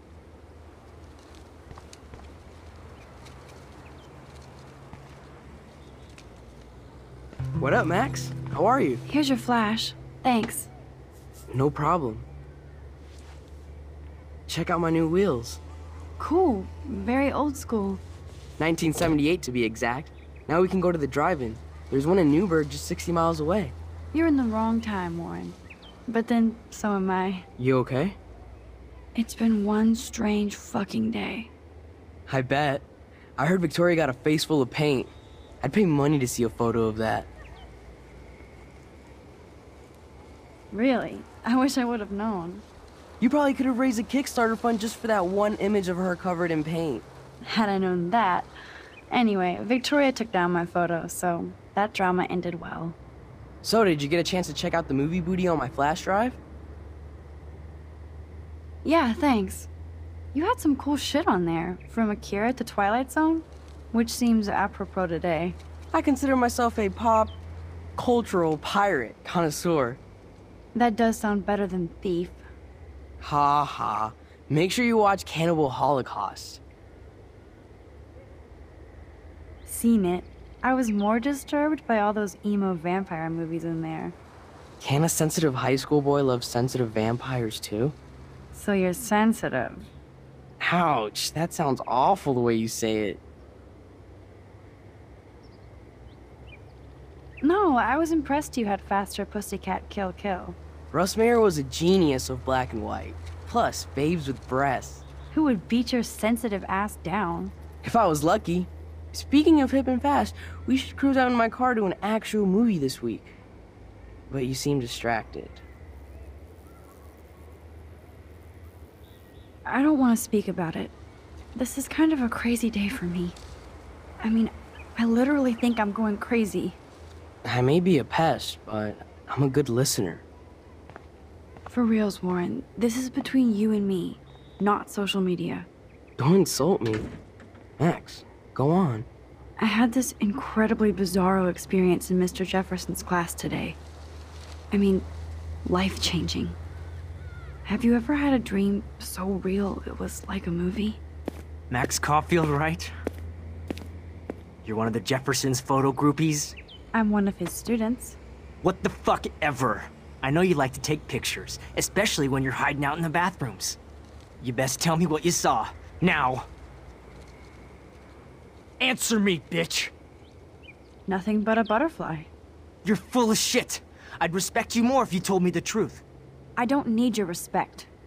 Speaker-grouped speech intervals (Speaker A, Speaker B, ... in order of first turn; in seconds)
Speaker A: 7.6-9.0, 11.5-12.3, 14.5-15.6, 18.6-23.7, 27.6-28.2, 32.3-32.9, 33.4-37.3, 43.2-47.1, 53.6-56.4, 65.9-67.4, 68.0-70.0, 73.2-76.6, 84.8-88.0, 90.6-93.2, 100.9-105.1, 107.8-113.3, 114.3-115.6, 127.4-130.2, 136.2-137.1, 137.8-139.1
Speaker B: 9.1-10.7, 16.2-18.0, 24.1-27.5, 29.1-31.5, 40.7-42.6, 47.4-48.5, 49.1-53.0, 58.8-59.7, 60.3-65.6, 70.7-72.4, 79.7-84.2, 88.5-89.9, 97.4-100.6, 105.3-107.5, 119.7-120.9, 121.5-123.4, 124.2-126.8, 131.7-135.7, 139.6-143.8, 144.7-145.1, 145.6-146.6, 147.7-151.0, 156.9-158.2, 171.1-172.3, 176.6-177.9
Speaker C: 151.7-152.9, 154.6-156.6, 158.6-163.8, 164.4-166.5, 168.8-169.9, 172.8-176.0